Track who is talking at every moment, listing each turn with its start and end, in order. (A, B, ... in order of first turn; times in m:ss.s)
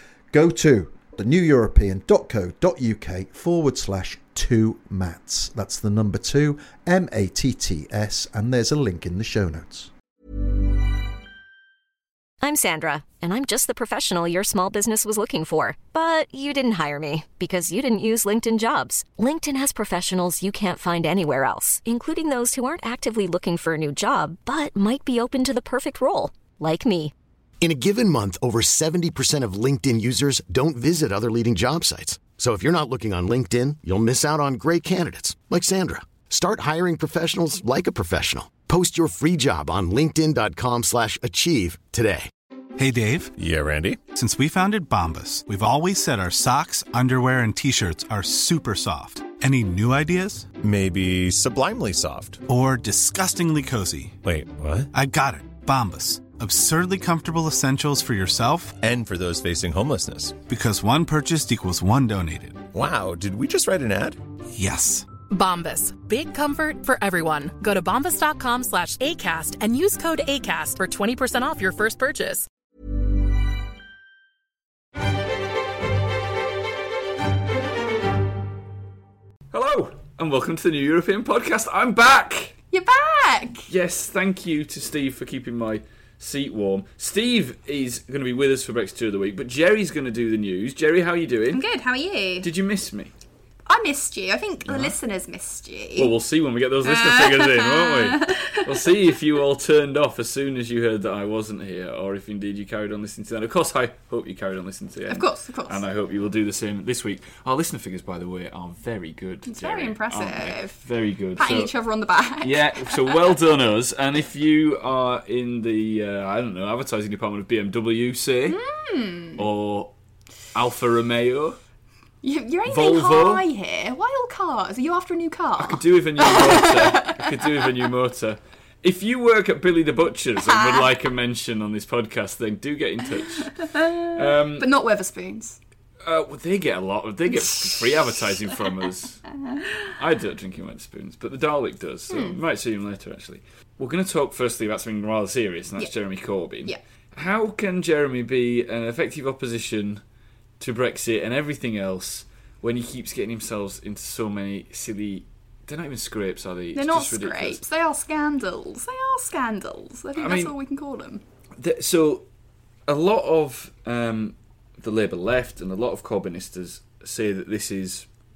0:00.3-0:09.9 A
0:12.4-0:27.1 B
0:27.6-0:42.3 C
0:42.8-0:43.3 D
0:43.4-0:44.0 E
0:44.0-0:50.5 D
0:50.6-0:52.4 E
0:52.5-0:54.2 D
0:54.2-0:54.9 E
0:54.9-0:58.8 D
0:58.8-1:00.4 E
1:00.4-1:02.7 D
1:02.7-1:04.2 E
1:04.5-1:05.1 D
1:05.3-1:12.5 F
1:19.5-1:22.6 G
1:22.7-1:23.7 H
1:23.7-1:31.6 G
1:31.5-1:32.5 H
1:32.4-1:33.1 G
1:33.7-1:36.1 H
1:34.7-1:35.0 G
1:36.0-1:51.7 G
1:36.8-1:38.8 H
1:45.1-1:45.8 H
1:49.5-1:50.8 H
1:51.4-1:53.4 H
1:52.4-1:58.6 G
1:58.5-1:59.4 H
1:59.4-1:59.9 G
2:00.5-2:01.6 G
2:02.2-2:07.7 H
2:02.7-2:03.4 G
2:05.6-2:14.7 G
2:10.4-2:10.9 H
2:13.4-2:15.6 H
2:16.0-2:19.3 G
2:17.5-2:17.9 H
2:19.9-2:30.0 G
2:22.1-2:22.4 H
2:30.6-2:37.6 G
2:36.8-2:41.2 H
2:40.2-2:40.5 G
2:41.6-2:42.2 G
2:42.9-2:48.1 G